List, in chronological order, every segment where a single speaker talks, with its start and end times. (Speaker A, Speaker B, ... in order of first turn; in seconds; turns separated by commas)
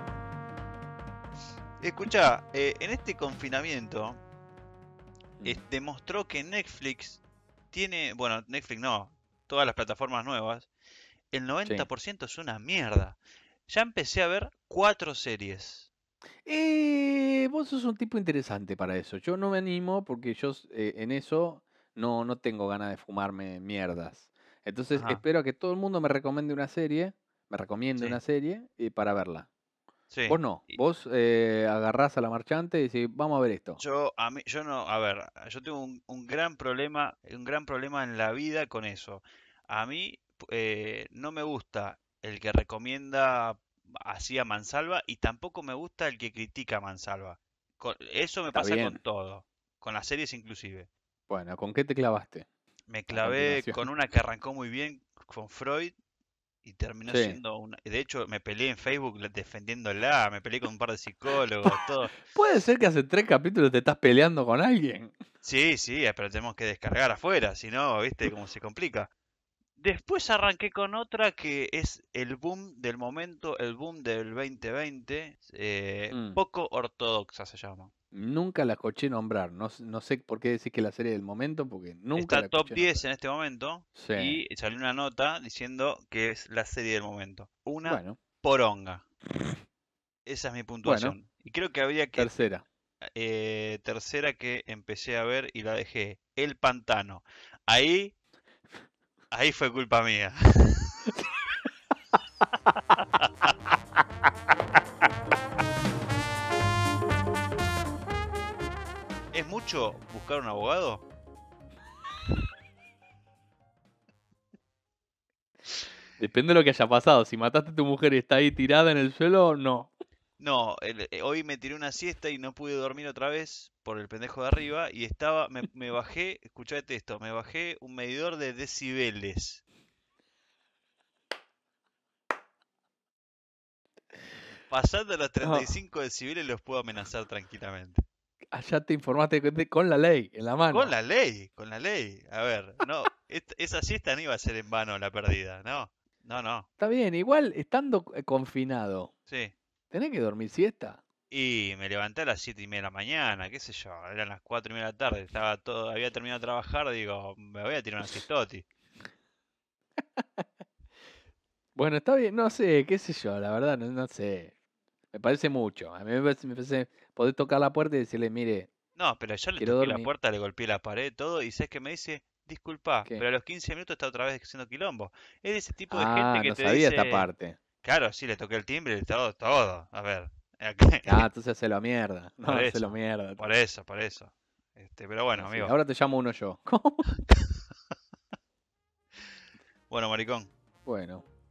Speaker A: 1.8-4.2, Speaker A: 5.4-10.7, Speaker A: 11.3-15.9, Speaker B: 16.4-29.5, Speaker A: 24.9-25.2, Speaker A: 30.1-30.8, Speaker B: 30.3-33.8, Speaker A: 33.8-50.9, Speaker B: 48.5-49.0, Speaker B: 51.3-52.4, Speaker A: 52.9-56.0, Speaker B: 53.1-53.9, Speaker A: 56.6-62.2, Speaker B: 57.1-57.4, Speaker B: 62.3-65.2, Speaker A: 65.4-69.1, Speaker A: 69.8-77.9, Speaker B: 76.1-76.4, Speaker B: 78.1-83.0, Speaker A: 82.1-89.0, Speaker B: 84.0-84.4, Speaker B: 87.8-88.2, Speaker A: 90.2-92.3, Speaker B: 90.8-91.2, Speaker B: 92.1-92.6, Speaker A: 93.2-98.1, Speaker A: 99.3-100.9, Speaker A: 103.2-103.5, Speaker A: 109.3-111.0, Speaker B: 116.2-119.9, Speaker A: 120.4-129.6, Speaker A: 134.7-138.0, Speaker B: 135.4-135.7, Speaker B: 138.5-140.9, Speaker A: 140.7-146.7, Speaker B: 146.8-149.1, Speaker A: 149.3-149.5, Speaker B: 149.9-151.0, Speaker A: 151.3-158.7, Speaker B: 161.8-164.5, Speaker B: 165.1-168.7, Speaker A: 168.9-177.3, Speaker B: 169.6-170.1, Speaker B: 175.9-177.6, Speaker A: 177.8-181.3, Speaker B: 181.1-183.5, Speaker A: 182.4-185.7, Speaker B: 185.3-187.1, Speaker A: 189.9-190.5, Speaker B: 190.8-191.2